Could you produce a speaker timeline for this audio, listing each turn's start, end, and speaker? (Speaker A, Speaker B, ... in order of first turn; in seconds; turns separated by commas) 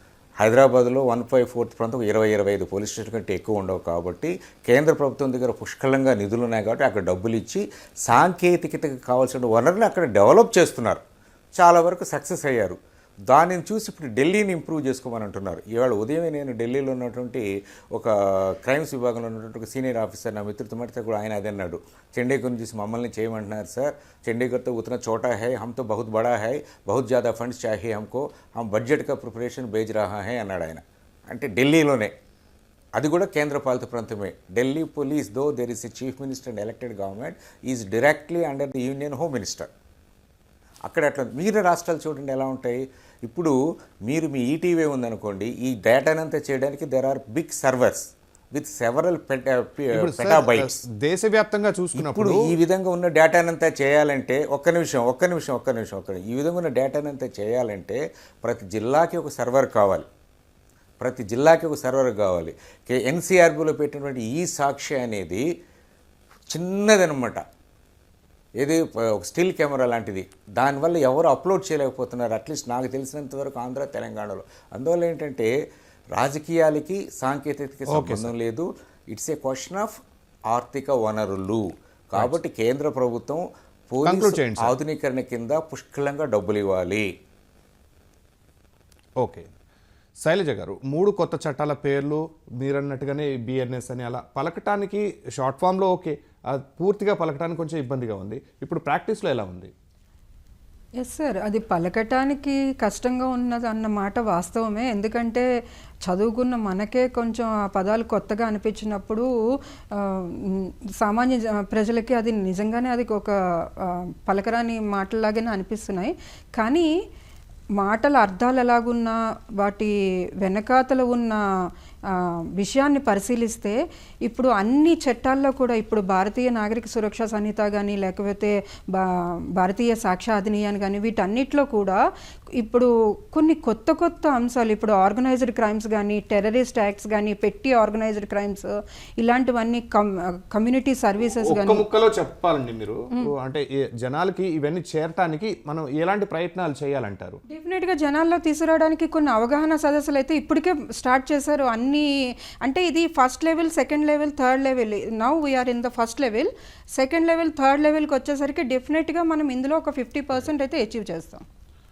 Speaker A: 0.4-11.0, Speaker A: 11.6-12.8, Speaker A: 13.3-32.1, Speaker A: 33.0-39.7, Speaker A: 40.8-50.8, Speaker B: 49.9-52.5, Speaker A: 52.0-60.1, Speaker A: 61.0-65.4, Speaker A: 66.5-67.4, Speaker A: 68.6-75.5, Speaker A: 76.1-87.1, Speaker B: 77.9-78.3, Speaker B: 84.0-84.7, Speaker B: 89.2-89.5, Speaker B: 90.2-99.7, Speaker C: 101.0-105.5, Speaker C: 106.0-109.3, Speaker C: 109.9-116.9, Speaker C: 117.8-121.4, Speaker C: 122.1-132.0, Speaker C: 132.6-141.8, Speaker B: 141.4-147.4, Speaker C: 147.5-152.1, Speaker C: 152.6-161.4